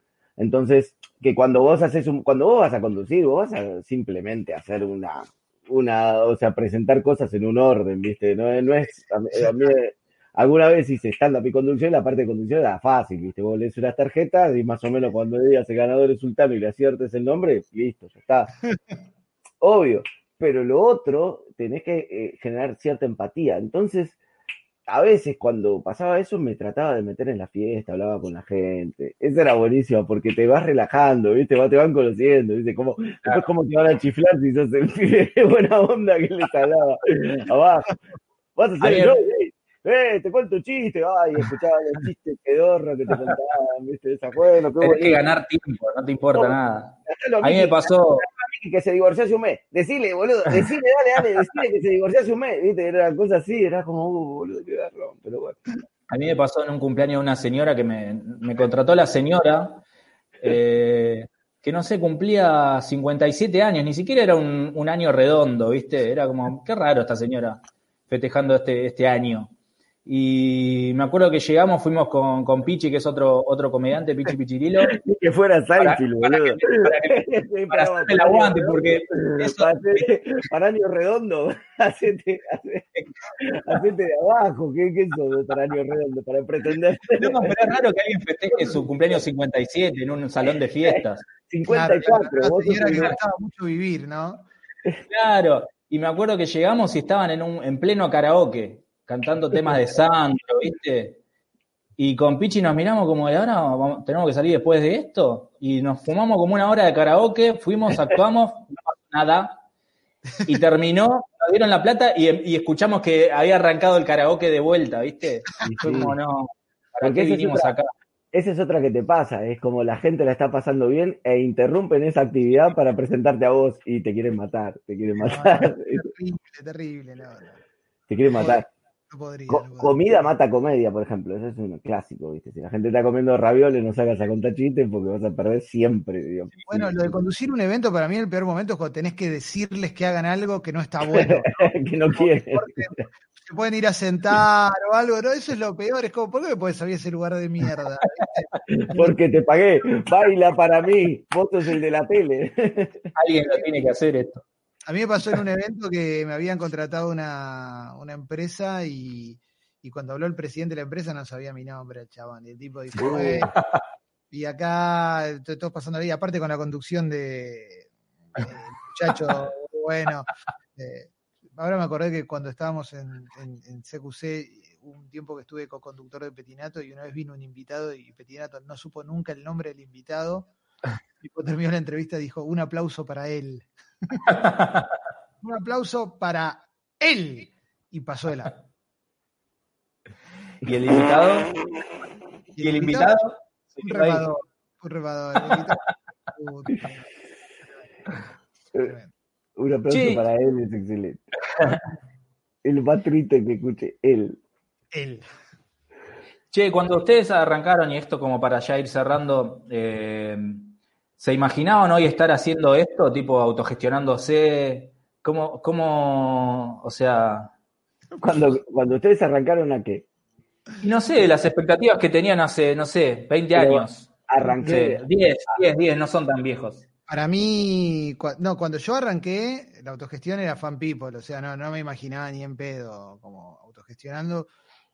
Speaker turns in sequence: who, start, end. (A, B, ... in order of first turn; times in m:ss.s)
0:00.4-0:18.5 A
0:19.6-0:24.2 A
0:24.9-0:38.0 A
0:38.6-0:45.2 A
0:38.8-0:39.2 B
0:43.1-0:43.4 B
0:44.8-0:48.2 B
0:46.3-0:55.6 A
0:56.1-0:59.8 B
1:00.4-1:09.5 B
1:10.0-1:15.0 B
1:14.8-1:27.6 A
1:15.8-1:20.1 B
1:27.2-1:31.3 B
1:28.5-1:29.2 A
1:30.8-1:33.1 A
1:31.6-1:34.5 C
1:32.8-1:33.2 B
1:35.1-1:41.2 B
1:42.0-1:49.6 B
1:50.4-1:57.9 B
1:55.6-1:56.2 A
1:57.0-1:57.7 A
1:58.3-2:06.0 A
2:05.2-2:07.6 C
2:08.1-2:08.6 A
2:08.3-2:10.3 C
2:09.5-2:17.1 A
2:16.7-2:29.1 C
2:21.1-2:23.0 A
2:28.7-2:33.1 A
2:33.2-2:34.4 B
2:34.9-2:43.5 C
2:43.0-2:43.5 A
2:44.3-3:00.5 C
3:01.2-3:04.3 C
3:04.4-3:04.8 B
3:05.4-3:08.5 C
3:10.6-3:11.5 B
3:12.6-3:13.2 C
3:12.6-3:14.2 B
3:13.8-3:17.0 C
3:18.8-3:19.1 C
3:19.6-3:21.2 A
3:19.9-3:20.2 B
3:21.5-3:21.8 B
3:22.6-3:24.4 A
3:24.9-3:25.2 C
3:26.5-3:37.5 B
3:38.2-3:40.0 A
3:40.8-3:46.8 B
3:43.5-3:45.0 A
3:47.1-3:54.5 C